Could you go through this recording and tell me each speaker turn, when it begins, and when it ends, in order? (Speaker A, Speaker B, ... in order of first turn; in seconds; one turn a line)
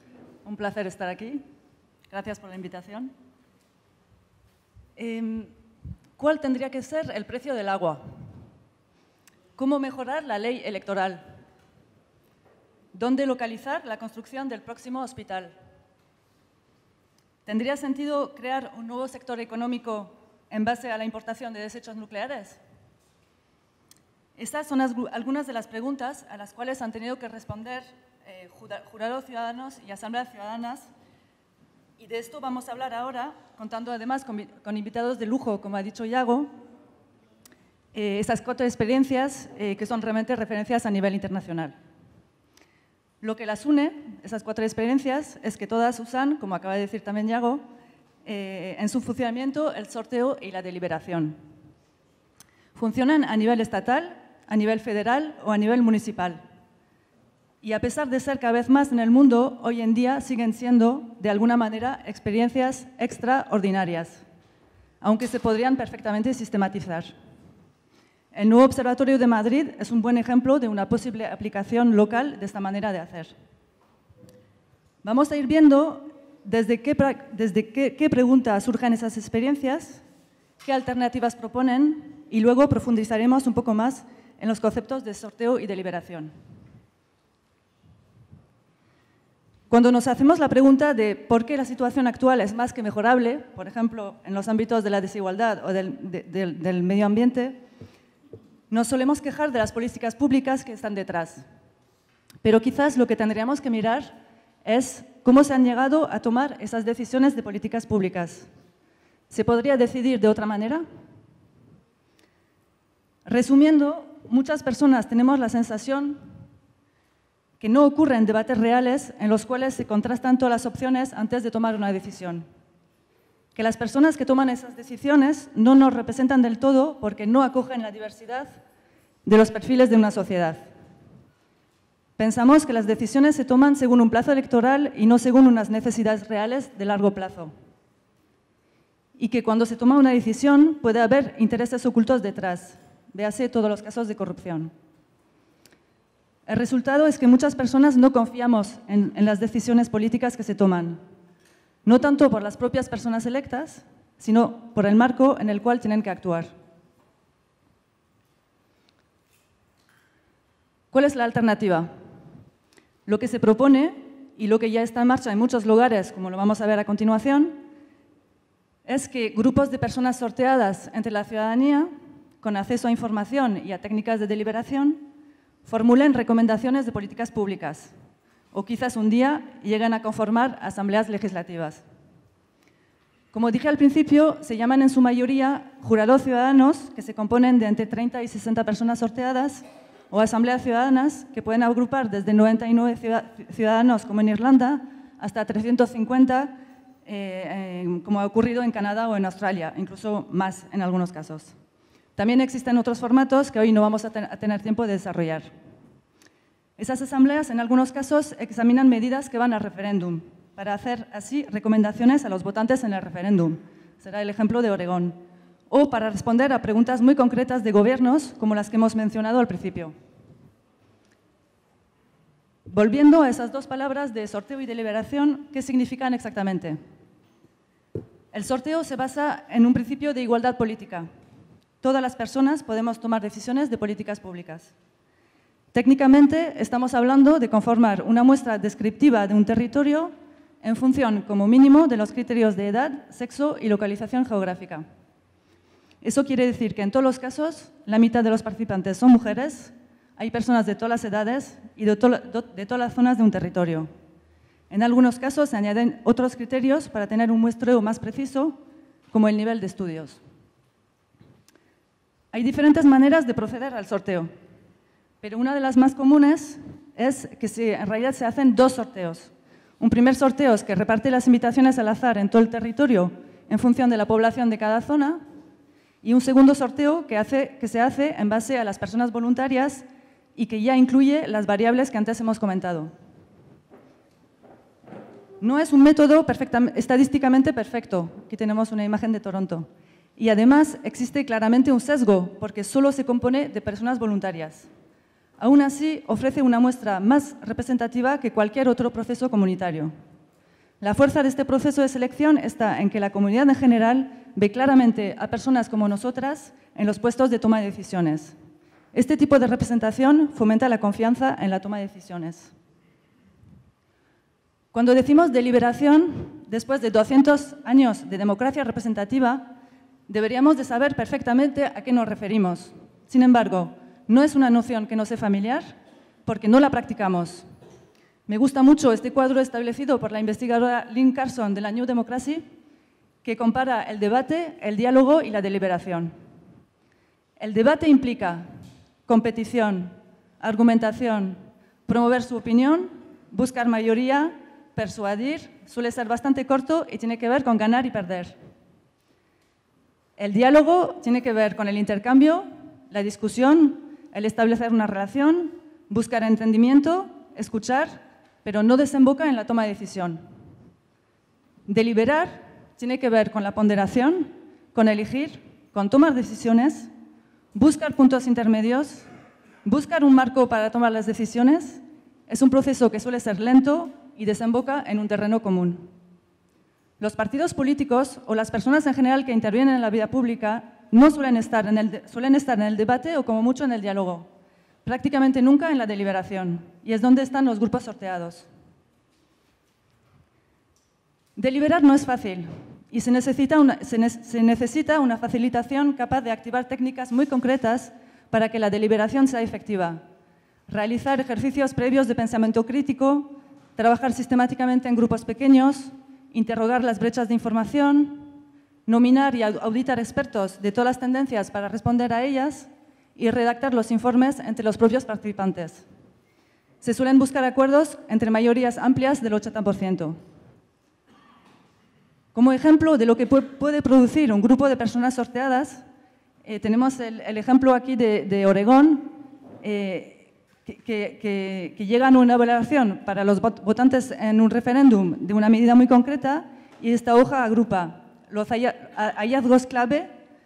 Speaker A: 0.4-1.4
Speaker A: 2.1-3.1
Speaker A: 5.0-5.5
Speaker A: 6.2-8.0
Speaker A: 9.6-11.2
Speaker A: 12.9-15.5
Speaker A: 17.4-22.6
Speaker A: 24.4-30.9
Speaker A: 32.0-36.5
Speaker A: 37.9-41.7
Speaker A: 43.2-47.6
Speaker A: 48.2-51.4
Speaker A: 52.7-56.4
Speaker A: 57.6-64.2
Speaker A: 65.0-67.1
Speaker A: 68.3-73.3
Speaker A: 75.0-80.0
Speaker A: 80.6-86.3
Speaker A: 89.7-97.6
Speaker A: 98.7-101.4
Speaker A: 102.4-108.5
Speaker A: 109.3-110.8
Speaker A: 113.2-116.2
Speaker A: 117.6-122.5
Speaker A: 123.5-128.5
Speaker A: 129.2-130.7
Speaker A: 132.2-137.5
Speaker A: 139.2-144.7
Speaker A: 146.5-151.0
Speaker A: 151.8-156.5
Speaker A: 160.9-161.9
Speaker A: 163.1-167.6
Speaker A: 168.8-171.9
Speaker A: 172.4-175.0
Speaker A: 175.6-177.9
Speaker A: 178.5-181.8
Speaker A: 183.3-196.5
Speaker A: 197.0-201.5
Speaker A: 202.2-205.5
Speaker A: 206.8-215.2
Speaker A: 215.7-219.9
Speaker A: 222.7-226.8
Speaker A: 228.3-231.1
Speaker A: 231.8-234.7
Speaker A: 235.7-244.8
Speaker A: 246.0-253.9
Speaker A: 254.7-258.6
Speaker A: 259.1-260.2
Speaker A: 262.3-264.3
Speaker A: 265.2-275.2
Speaker A: 276.0-282.9
Speaker A: 285.4-294.7
Speaker A: 295.4-299.9
Speaker A: 300.8-308.3
Speaker A: 308.9-312.5
Speaker A: 314.7-319.5
Speaker A: 320.1-325.7
Speaker A: 326.2-327.4
Speaker A: 328.3-332.4
Speaker A: 333.2-336.1
Speaker A: 337.4-338.4
Speaker A: 339.1-348.4
Speaker A: 350.2-360.2
Speaker A: 361.7-366.9
Speaker A: 367.5-369.1
Speaker A: 369.6-375.9
Speaker A: 377.0-384.3
Speaker A: 384.8-388.5
Speaker A: 391.4-400.0
Speaker A: 400.7-408.3
Speaker A: 408.9-415.8
Speaker A: 416.8-420.2
Speaker A: 422.3-425.8
Speaker A: 426.4-440.1